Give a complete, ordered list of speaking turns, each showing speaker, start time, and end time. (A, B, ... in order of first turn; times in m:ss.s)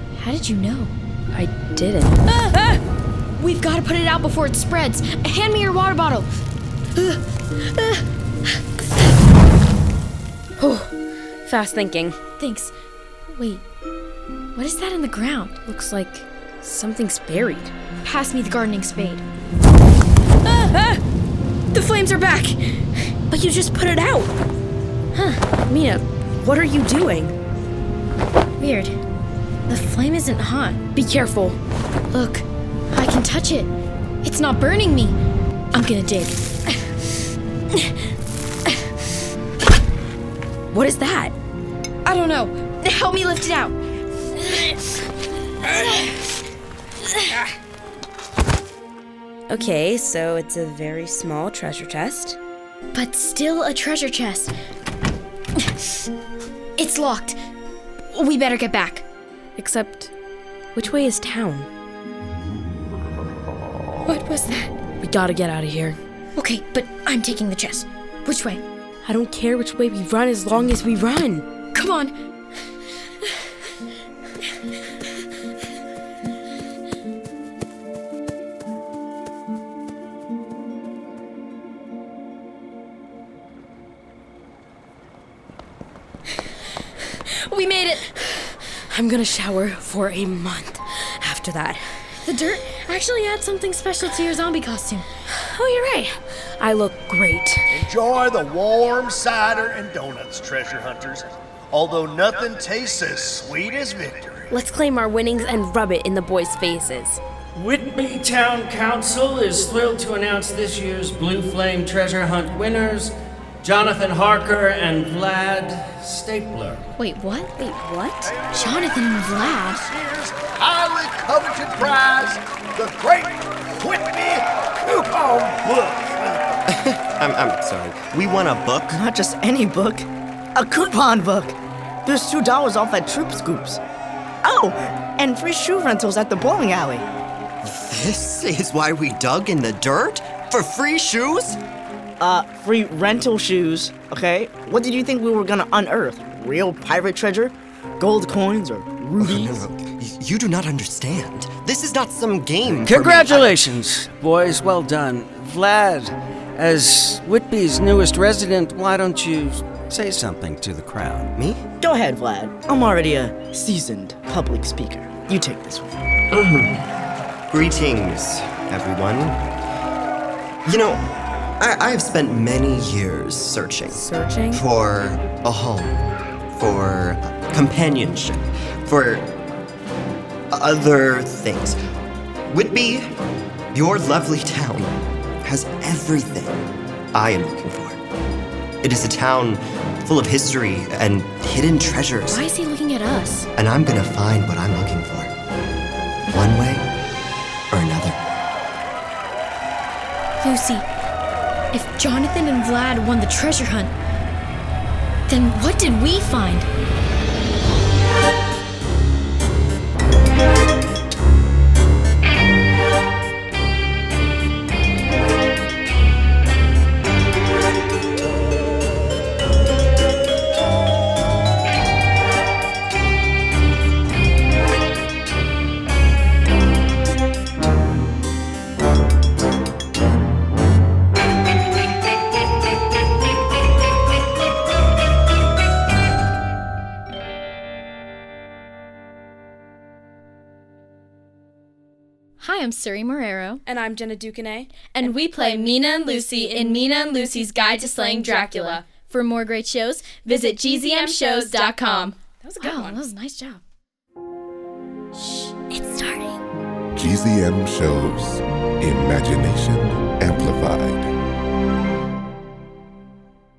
0:00.2-0:00.9 A
0:01.4-0:02.2 B
0:02.3-0:02.7 A
0:03.4-0:06.3 A
0:07.0-0:08.0 A
0:10.6-0:12.2 B
0:12.4-0:12.7 A
0:13.3-0:13.6 A
0:14.6-0:15.6 A
0:15.6-0:17.7 B
0:18.0-0:19.2 A
0:20.7-0:21.0 B
0:21.8-0:22.3 B
0:21.8-0:22.6 A
0:23.3-0:24.3 B
0:25.1-0:25.4 A
0:25.7-0:27.4 B
0:28.6-0:29.0 A
0:29.7-0:30.8 A
0:30.9-0:31.6 B
0:32.1-0:33.7 A
0:34.2-0:35.2 A
0:35.7-0:36.4 A
0:40.7-0:41.3 B
0:42.0-0:43.8 A
0:44.5-0:44.8 A
0:45.7-0:46.1 A
0:49.5-0:52.4 B
0:52.9-0:54.5 A
0:55.6-0:56.1 A
0:56.8-0:57.4 A
0:58.1-0:59.0 A
0:59.6-1:00.1 B
1:00.8-1:01.7 B
1:04.1-1:04.7 A
1:05.0-1:06.0 B
1:06.4-1:08.6 A
1:09.0-1:11.4 B
1:11.7-1:12.2 A
1:27.1-1:28.1 A
1:28.9-1:31.8 B
1:32.2-1:35.1 A
1:35.3-1:37.8 B
1:37.7-1:44.4 C
1:44.5-1:47.2 B
1:47.6-1:53.1 D
1:53.6-1:55.7 D
1:56.2-1:56.7 D
1:57.0-1:57.5 A
1:57.6-1:58.3 B
1:58.5-1:59.9 A
1:59.7-2:06.6 C
2:06.7-2:09.0 E
2:08.9-2:13.8 F
2:14.4-2:17.1 F
2:17.6-2:21.6 E
2:22.2-2:29.6 F
2:29.2-2:33.8 E
2:32.7-2:41.3 G
2:32.9-2:33.4 F
2:33.6-2:34.0 D
2:41.4-2:41.6 E
2:41.8-2:46.1 F
2:46.3-2:46.8 E
2:47.5-2:49.4 E
2:50.6-2:51.0 E
2:51.6-2:56.0 E
2:53.9-2:54.6 B
2:56.5-2:59.3 E
3:00.5-3:01.8 E
3:02.5-3:03.1 E
3:03.7-3:06.6 E
3:07.1-3:08.0 E
3:08.8-3:12.5 E
3:12.3-3:13.5 A
3:13.6-3:15.3 E
3:16.3-3:16.9 E
3:17.7-3:18.2 E
3:20.4-3:20.9 A
3:21.7-3:23.9 A
3:25.3-3:26.7 A
4:02.4-4:03.6 A
4:03.7-4:05.4 B
4:04.9-4:13.6 A
4:06.3-4:06.7 B
4:08.0-4:08.8 B
4:10.3-4:13.0 B
4:15.1-4:16.4 A
4:17.0-4:21.1 H